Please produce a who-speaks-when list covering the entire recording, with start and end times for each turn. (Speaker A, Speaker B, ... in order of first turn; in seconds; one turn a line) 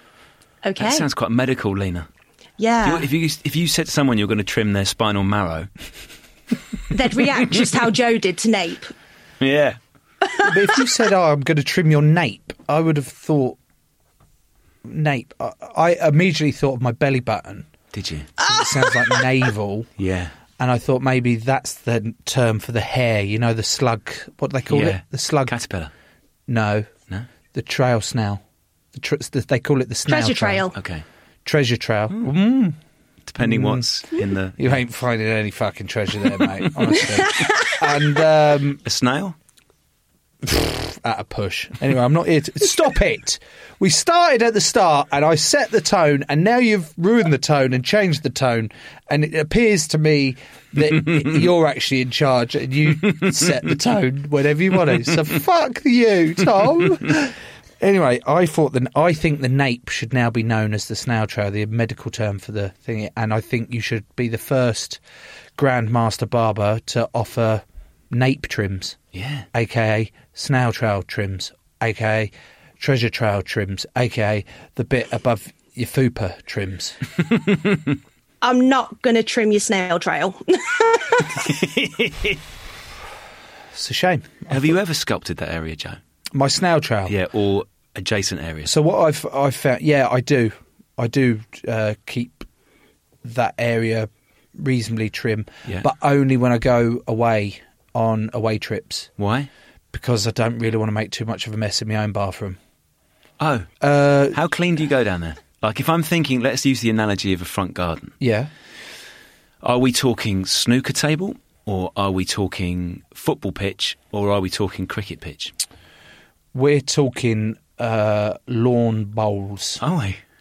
Speaker A: 0.6-1.1
Speaker B: 0.8-2.1
Speaker A: 2.6-3.1
Speaker B: 2.8-5.7
Speaker A: 6.9-8.9
Speaker B: 9.4-9.8
Speaker C: 10.4-13.6
Speaker C: 14.8-17.7
Speaker B: 17.9-18.3
Speaker A: 18.4-19.2
Speaker C: 18.4-19.9
Speaker B: 20.0-20.3
Speaker C: 20.6-25.5
Speaker B: 24.7-25.9
Speaker C: 26.5-26.9
Speaker C: 27.5-28.4
Speaker C: 28.9-30.7
Speaker A: 30.1-30.8
Speaker B: 30.8-31.1
Speaker C: 31.4-32.8
Speaker B: 33.3-34.8
Speaker C: 33.4-33.9
Speaker C: 34.6-38.8
Speaker A: 37.3-37.7
Speaker B: 38.9-39.4
Speaker C: 40.4-65.0
Speaker C: 65.6-69.0
Speaker B: 69.1-69.5
Speaker C: 69.5-77.0
Speaker B: 77.4-77.8
Speaker A: 78.4-81.4
Speaker B: 81.5-82.4
Speaker C: 83.8-84.8
Speaker B: 84.5-86.0
Speaker C: 86.3-87.2
Speaker B: 87.1-88.7
Speaker C: 88.7-92.5
Speaker C: 93.2-99.1
Speaker B: 99.2-99.5
Speaker C: 99.9-102.6
Speaker B: 103.4-103.7
Speaker C: 103.8-104.4
Speaker B: 104.3-108.2
Speaker C: 108.2-108.5
Speaker B: 109.6-115.5
Speaker C: 116.5-119.8
Speaker B: 119.8-120.2